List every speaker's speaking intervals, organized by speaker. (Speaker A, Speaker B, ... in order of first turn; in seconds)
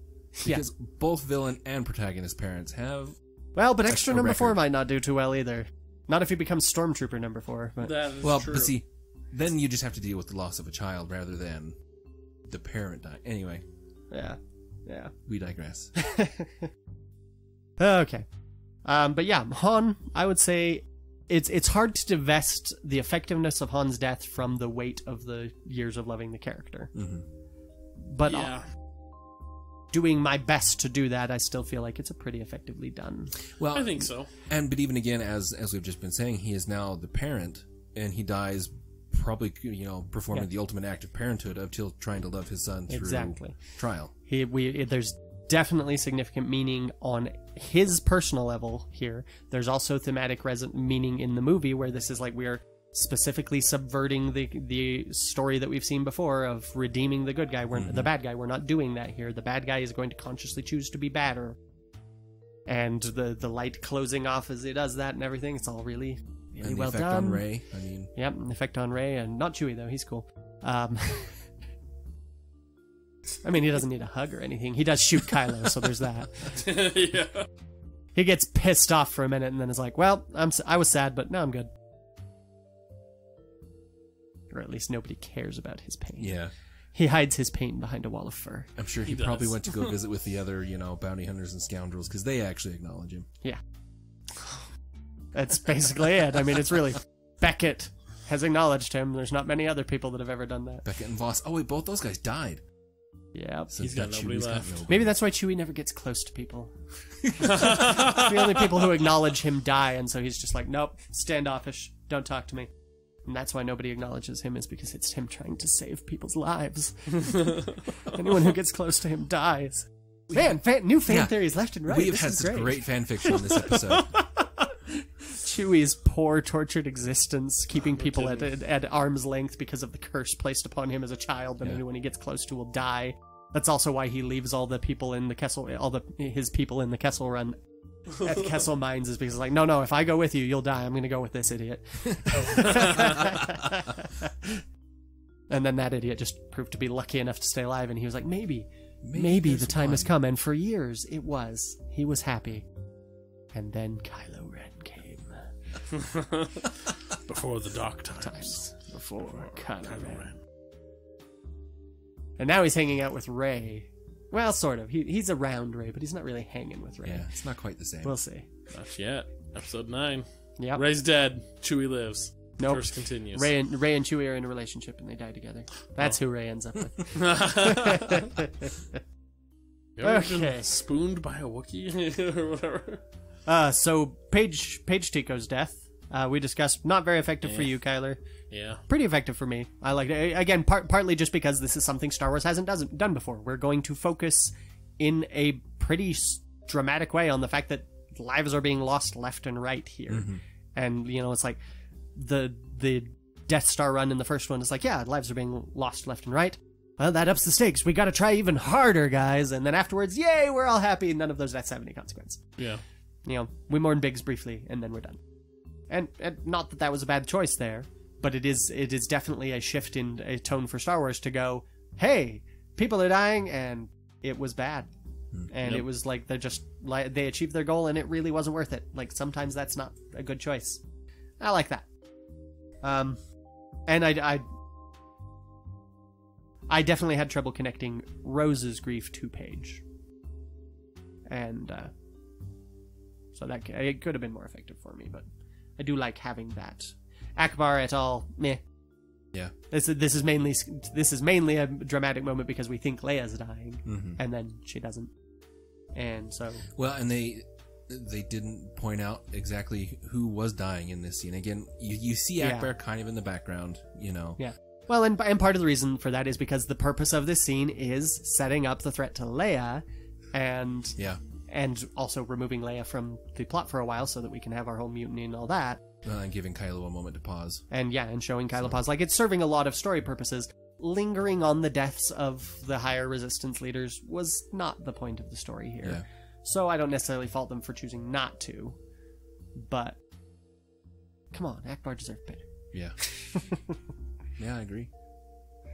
Speaker A: 0.4-0.6, 3.5-7.9, 14.1-15.1, 15.9-16.7, 17.8-18.3, 18.8-26.9, 28.0-28.5, 29.9-33.4, 42.9-43.6, 44.2-61.5, 62.7-67.5, 68.1-71.4, 73.4-76.6, 78.1-81.7, 84.5-86.4, 86.9-88.7, 95.3-100.8, 103.3-103.8, 104.8-112.7, 113.2-137.6, 138.1-144.6, 145.5-152.7, 153.5-155.5, 158.2-160.3, 162.4-167.3, 168.0-168.5, 172.6-179.0, 180.0-180.7, 183.4-188.2, 188.9-201.6, 202.2-212.5, 213.2-215.2, 215.9-224.9, 225.5-230.8, 231.4-231.8, 232.8-233.2, 233.8-234.4, 236.7-239.8, 241.3-241.9, 243.3-245.2, 245.8-248.6, 249.7-255.1, 255.9-256.7, 262.4-262.7, 264.4-275.8, 277.7-288.8, 289.6-290.0, 291.3-292.4, 293.0-293.8
Speaker B: 0.4-3.1, 3.9-4.6, 8.2-11.8, 12.5-13.6, 15.3-15.9, 26.9-27.2, 33.6-44.1, 57.7-58.1, 66.6-68.1, 86.2-86.5, 88.8-93.3, 100.8-102.6, 103.7-105.1, 107.2-108.1, 121.1-124.2, 149.0-150.1, 167.0-168.2, 200.1-200.4, 225.3-225.9, 253.8-254.2, 256.7-264.4, 276.0-277.6, 292.7-293.0, 294.4-294.9
Speaker C: 7.8-8.7, 28.2-28.6, 33.7-34.3, 76.5-77.5, 89.0-89.9, 103.8-104.7, 107.4-108.3, 117.2-117.7, 127.8-128.5, 142.3-143.3, 155.9-158.6, 159.2-160.4, 168.7-173.5, 177.1-178.3, 180.0-183.0, 187.4-187.7, 188.5-188.8